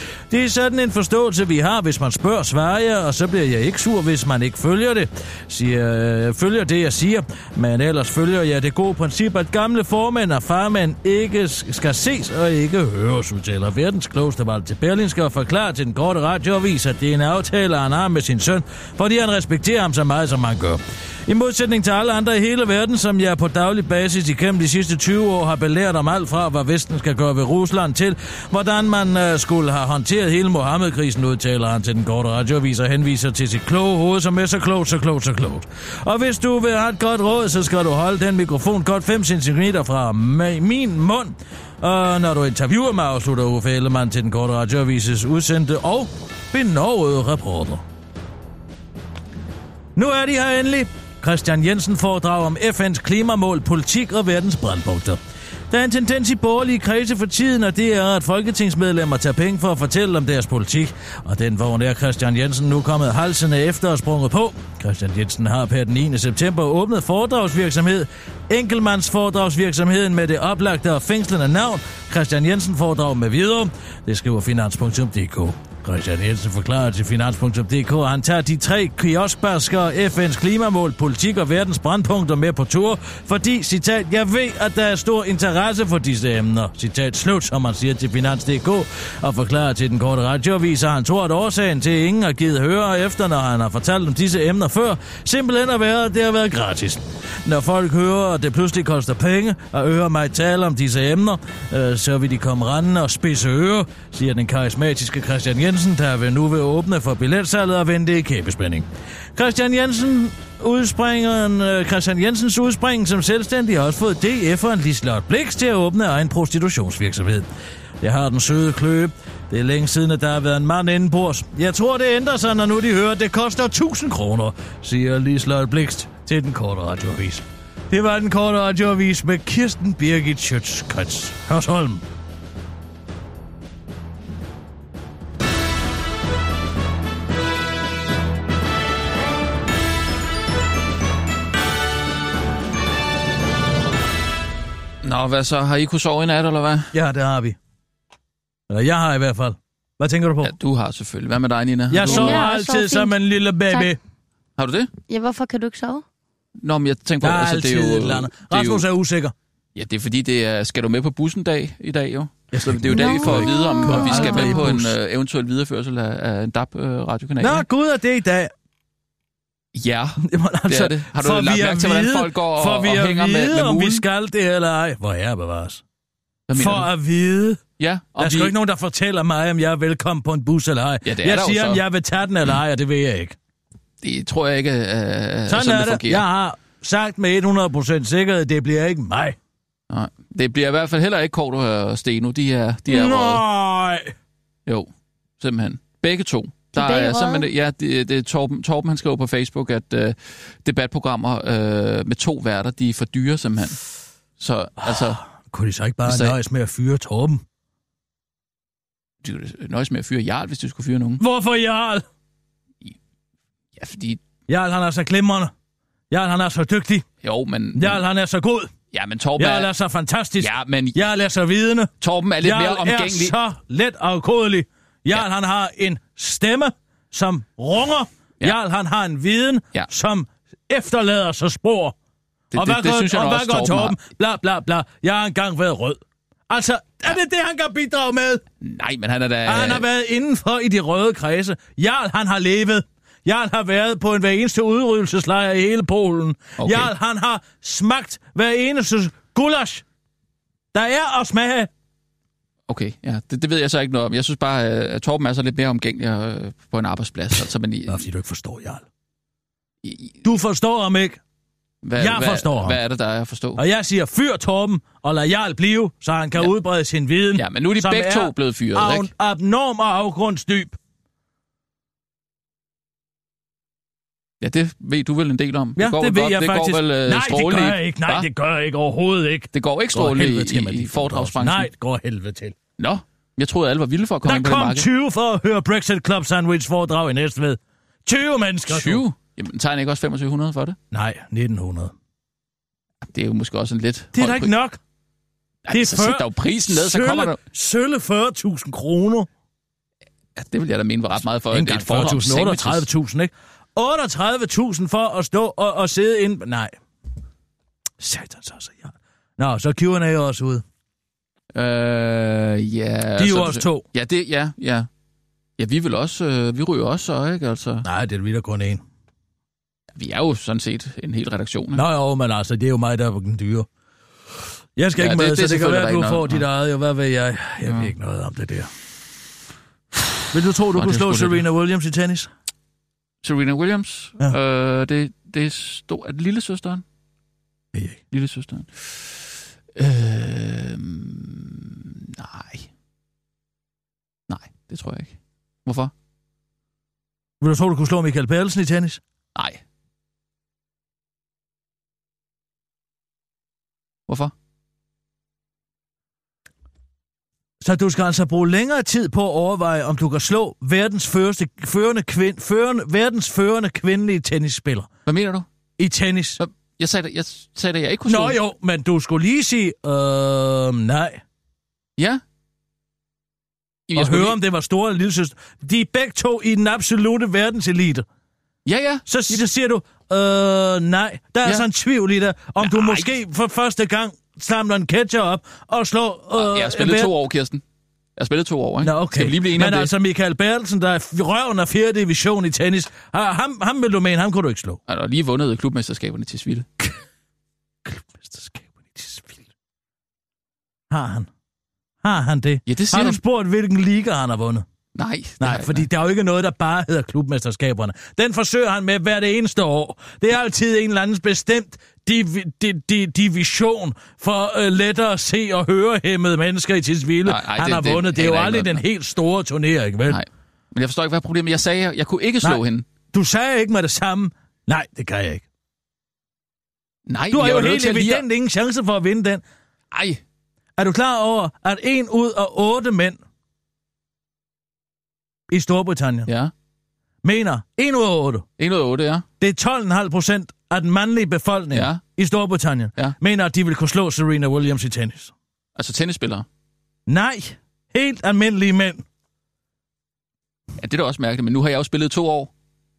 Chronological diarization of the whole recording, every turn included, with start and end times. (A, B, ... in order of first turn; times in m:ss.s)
0:00.3-0:47.8 A
0:50.0-1:57.5 A
1:58.0-2:12.0 A
2:25.0-2:26.9 B
2:26.9-2:27.6 A
2:28.7-2:30.5 A
2:30.4-2:32.4 B
2:31.9-2:34.0 A
2:32.0-2:33.2 C
2:34.6-2:34.9 B
2:35.1-2:36.0 C
2:36.6-2:38.8 B
2:37.2-2:39.3 A
2:39.8-2:47.6 B
2:42.5-2:44.9 A
2:43.0-2:44.6 C
2:47.4-2:48.5 A
2:49.8-2:54.0 B
2:50.2-2:55.8 A
2:56.5-2:56.9 B
2:56.6-2:57.6 A
2:57.8-2:58.5 B
2:58.2-3:03.4 A
3:01.0-3:01.8 B
3:04.0-3:06.2 B
3:05.5-3:09.4 A
3:09.9-3:13.4 B
3:12.9-3:14.1 A
3:14.7-3:23.8 B
3:16.7-3:17.5 C
3:24.4-3:25.2 B
3:24.8-3:27.4 A
3:26.0-3:26.4 B
3:29.2-3:31.2 B
3:31.2-3:32.0 A
3:33.8-3:34.2 B
3:34.5-3:35.5 A
3:36.1-3:37.1 A
3:37.2-3:38.0 B
3:37.8-3:38.7 A
3:38.9-3:39.7 B
3:39.4-3:52.0 A
3:40.4-3:41.0 B
3:42.0-3:43.4 B
3:52.5-3:54.0 B
3:52.5-3:58.4 A
3:58.6-3:59.9 B
3:59.5-4:09.8 A
4:06.6-4:06.9 B
4:10.7-4:11.7 A
4:12.7-4:18.0 B
4:17.9-4:18.8 A
4:19.8-4:20.2 B
4:20.2-4:21.2 A
4:21.8-4:23.6 B
4:22.0-4:22.8 A
4:23.6-4:30.8 A
4:27.4-4:29.1 B
4:34.4-4:38.3 B
4:35.8-4:42.6 A
4:39.5-4:41.7 B
4:42.8-4:44.9 B
4:44.2-4:49.0 A
4:48.7-4:50.8 B
4:50.9-4:51.9 A
4:53.1-4:54.5 B
4:54.1-4:54.8 A
4:55.6-4:57.4 B
4:55.7-4:59.3 A
5:00.4-5:02.9 B
5:01.5-5:06.8 A
5:08.0-5:10.6 A
5:11.6-5:14.9 B
5:13.2-5:13.8 A
5:15.6-5:17.9 B
5:17.8-5:18.8 A
5:20.0-5:21.8 B
5:21.8-5:23.7 A
5:24.8-5:28.7 A
5:25.0-5:26.4 B
5:27.7-5:27.9 B
5:30.3-5:32.3 A
5:30.8-5:31.4 B
5:33.2-5:36.8 B
5:37.7-5:38.0 A
5:38.1-5:42.7 B
5:44.3-5:45.9 B
5:47.4-5:49.0 A
5:49.4-5:49.6 B
5:54.1-5:54.3 B
5:57.6-6:04.9 A
6:05.1-6:05.5 B
6:05.8-6:06.4 A
6:06.4-6:08.4 B
6:08.1-6:11.2 A
6:13.9-6:14.4 B
6:14.0-6:18.1 A
6:18.7-6:19.4 B
6:19.1-6:27.1 A
6:22.6-6:23.1 B
6:26.4-6:27.6 B
6:28.2-6:29.9 B
6:28.8-6:34.8 A
6:34.9-6:36.7 B
6:37.8-6:39.4 A
6:40.9-6:41.3 A
6:42.0-6:44.6 A
6:42.7-6:43.2 B
6:45.0-6:45.9 B
6:45.4-7:00.2 A
6:57.2-6:58.8 B
7:00.1-7:02.8 B
7:03.1-7:05.4 A
7:07.1-7:08.3 B
7:07.3-7:09.4 A
7:09.9-7:10.2 B
7:10.8-7:13.2 A
7:15.5-7:16.3 A
7:16.3-7:16.5 B
7:17.2-7:18.5 A
7:18.6-7:19.3 B
7:19.4-7:25.3 A
7:21.7-7:22.0 B
7:25.8-7:26.5 B
7:27.1-7:29.0 A
7:30.8-7:32.5 B